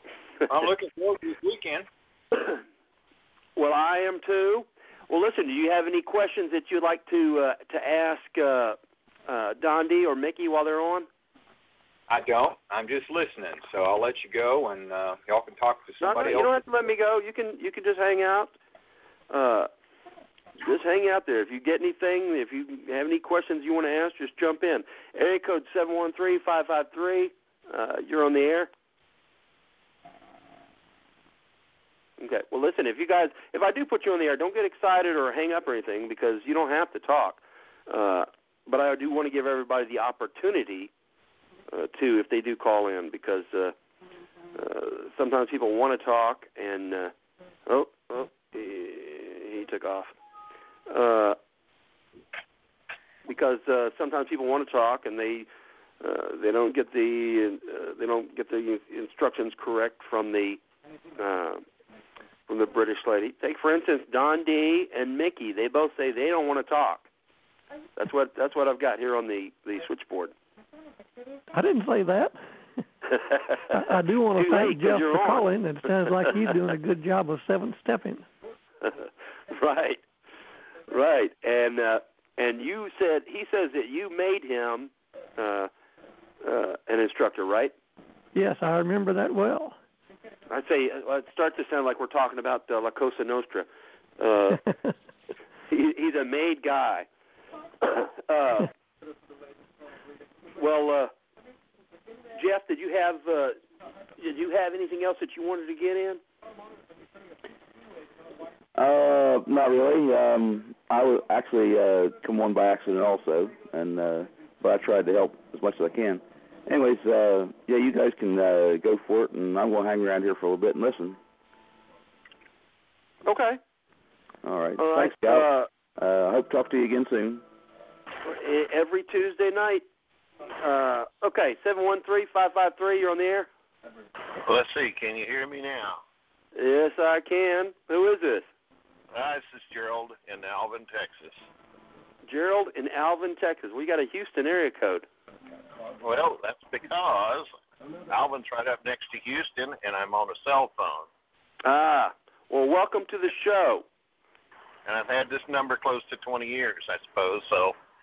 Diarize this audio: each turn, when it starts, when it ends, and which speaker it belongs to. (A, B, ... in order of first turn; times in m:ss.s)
0:00.5-0:01.9 A
0:03.6-0:11.1 B
0:12.1-0:16.6 A
0:16.0-0:18.5 B
0:19.3-0:19.7 B
0:20.6-0:28.7 B
0:32.2-0:40.9 B
0:41.7-0:43.7 B
0:44.5-0:47.1 B
0:47.7-0:50.1 B
0:50.9-0:51.4 B
0:53.3-0:55.5 B
0:56.0-1:00.6 B
1:01.2-1:01.6 B
1:02.5-1:07.1 B
1:08.0-1:10.3 B
1:11.5-1:12.4 C
1:13.1-1:13.7 B
1:13.7-1:18.3 C
1:14.3-1:15.4 B
1:18.8-1:20.0 B
1:20.9-1:25.7 B
1:26.4-1:27.7 B
1:28.3-1:29.8 C
1:30.5-1:33.7 B
1:34.2-1:34.6 B
1:35.7-1:37.1 B
1:37.8-1:38.7 B
1:40.5-1:41.1 B
1:42.3-1:43.6 B
1:44.2-1:46.2 B
1:48.7-2:01.2 D
2:03.2-2:03.6 B
2:04.4-2:07.4 D
2:04.8-2:05.7 B
2:08.2-2:09.8 B
2:10.6-2:13.5 B
2:14.4-2:16.0 E
2:16.5-2:18.5 B
2:19.1-2:21.4 E
2:22.2-2:25.0 B
2:26.0-2:27.5 E
2:28.1-2:31.1 E
2:31.6-2:33.8 B
2:34.8-2:37.7 E